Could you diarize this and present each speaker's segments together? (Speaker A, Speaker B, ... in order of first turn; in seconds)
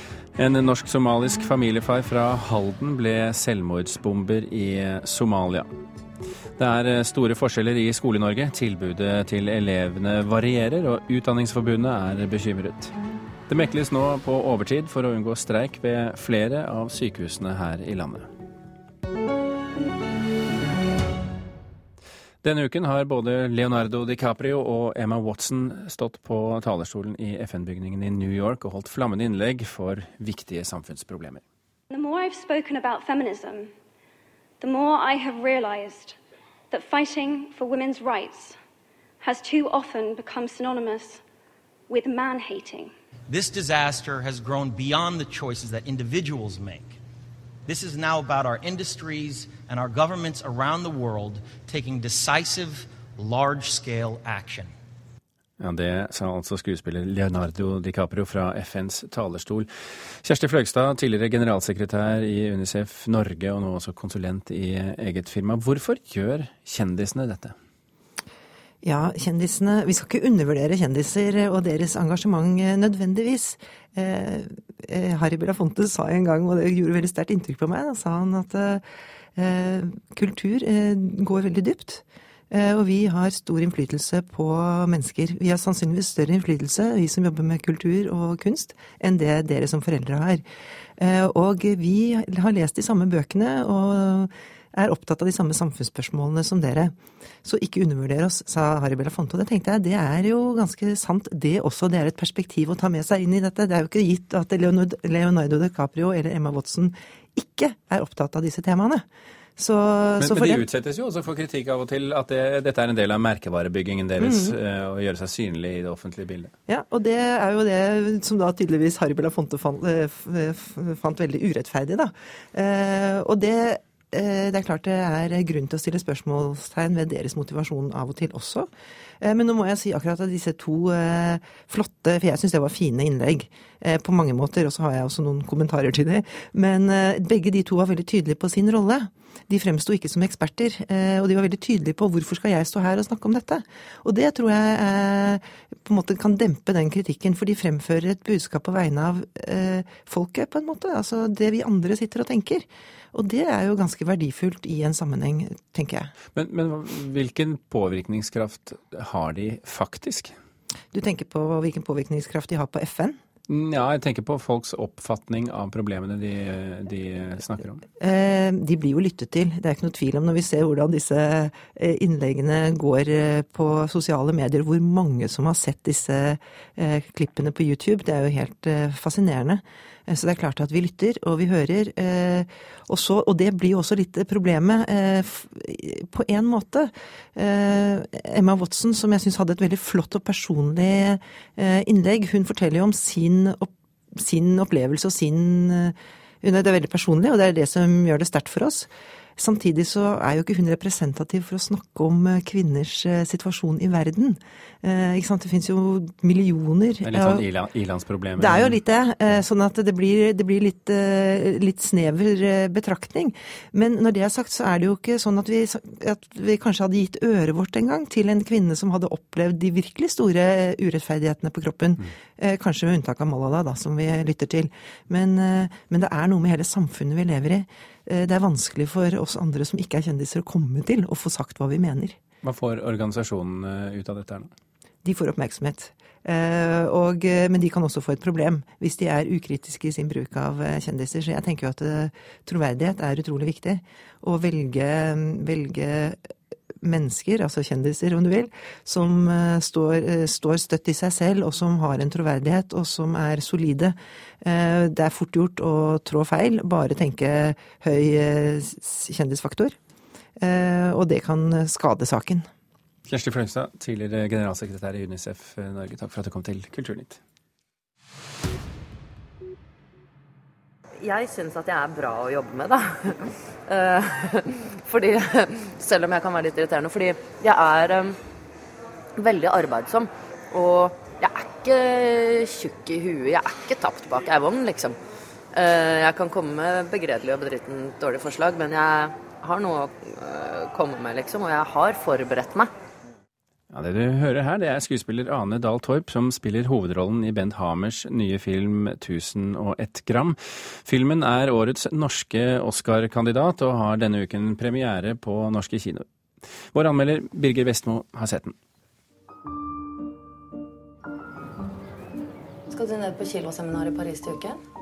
Speaker A: 0.4-5.7, 6.6-12.9, 13.5-18.3, 22.4-31.4, 55.6-59.7, 60.2-67.5, 110.2-116.5, 156.3-160.3, 163.5-167.8, 207.1-208.8, 232.4-234.5, 263.1-267.2, 293.7-306.1, 306.7-308.6
Speaker B: 31.9-33.7, 34.6-36.2, 36.7-38.6, 39.2-41.2, 41.9-42.9
Speaker C: 43.3-47.0, 47.7-54.7
Speaker D: 68.8-78.8, 79.3-90.5, 91.0-109.0, 109.6-110.7, 114.2-114.6, 116.7-128.7, 129.2-156.1, 160.9-163.2, 168.0-207.4, 208.4-232.2, 235.0-246.2, 246.8-259.8, 260.4-262.5
Speaker E: 271.0-278.2, 279.2-285.0, 285.5-292.7, 312.7-314.6